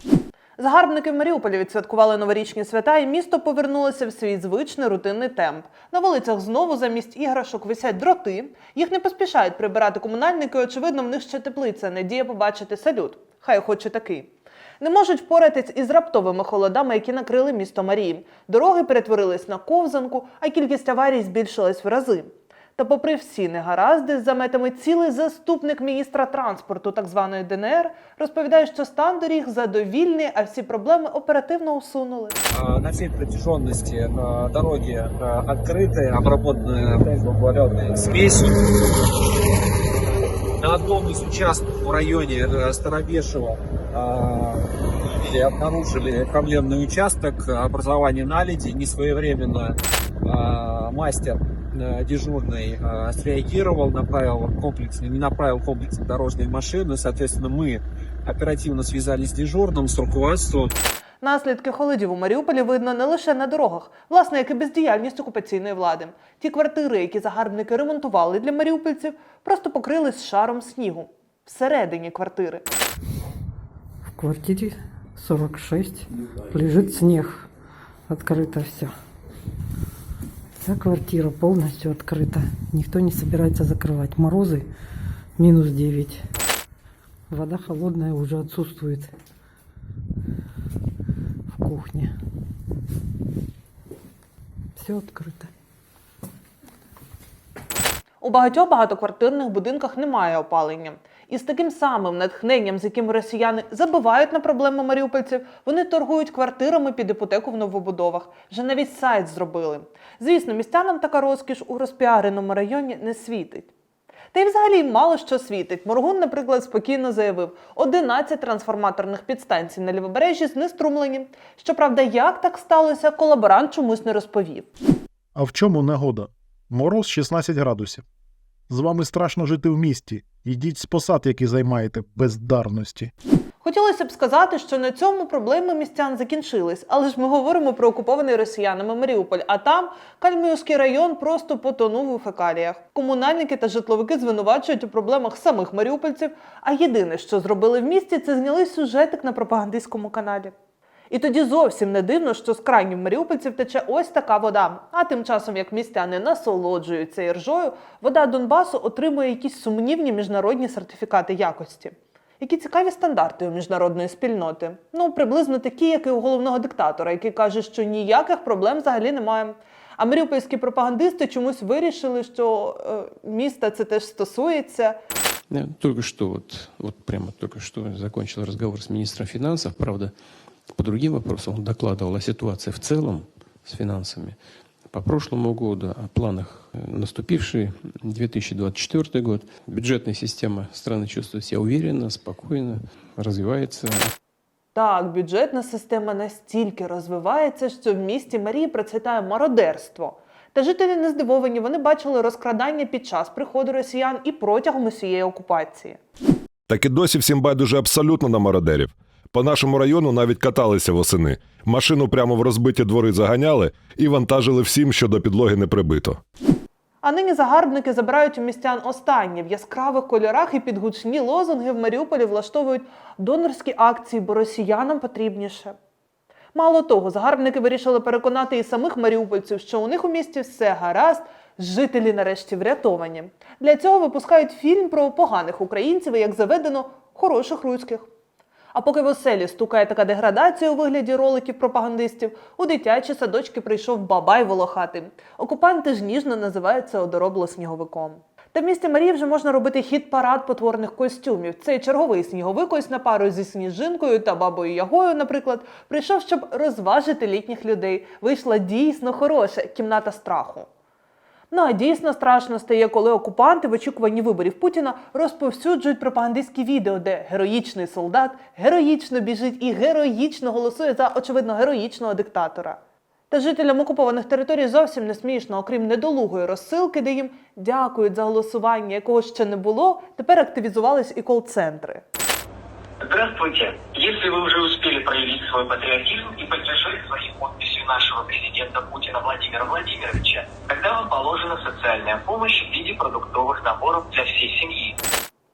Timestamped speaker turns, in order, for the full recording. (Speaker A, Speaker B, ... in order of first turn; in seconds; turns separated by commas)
Speaker A: 0.6-32.4, Speaker B: 32.5-38.6, Speaker B: 40.6-60.7, Speaker A: 61.2-72.7, Speaker C: 74.2-77.5, Speaker C: 78.1-78.9, Speaker C: 80.6-84.7, Speaker C: 85.4-86.2, Speaker C: 87.3-89.1, Speaker C: 91.5-92.1, Speaker C: 94.8-95.5, Speaker A: 98.2-113.7, Speaker A: 114.3-124.7, Speaker D: 125.3-128.0, Speaker D: 128.7-133.1, Speaker A: 133.6-150.5, Speaker A: 151.1-174.9, Speaker E: 175.5-180.1, Speaker E: 180.7-184.4, Speaker E: 184.9-194.1, Speaker A: 194.7-206.0, Speaker F: 206.7-216.2, Speaker A: 217.0-225.7, Speaker A: 226.5-238.1, Speaker A: 238.7-260.7, Speaker A: 261.5-272.8, Speaker A: 273.3-282.0, Speaker G: 283.0-295.0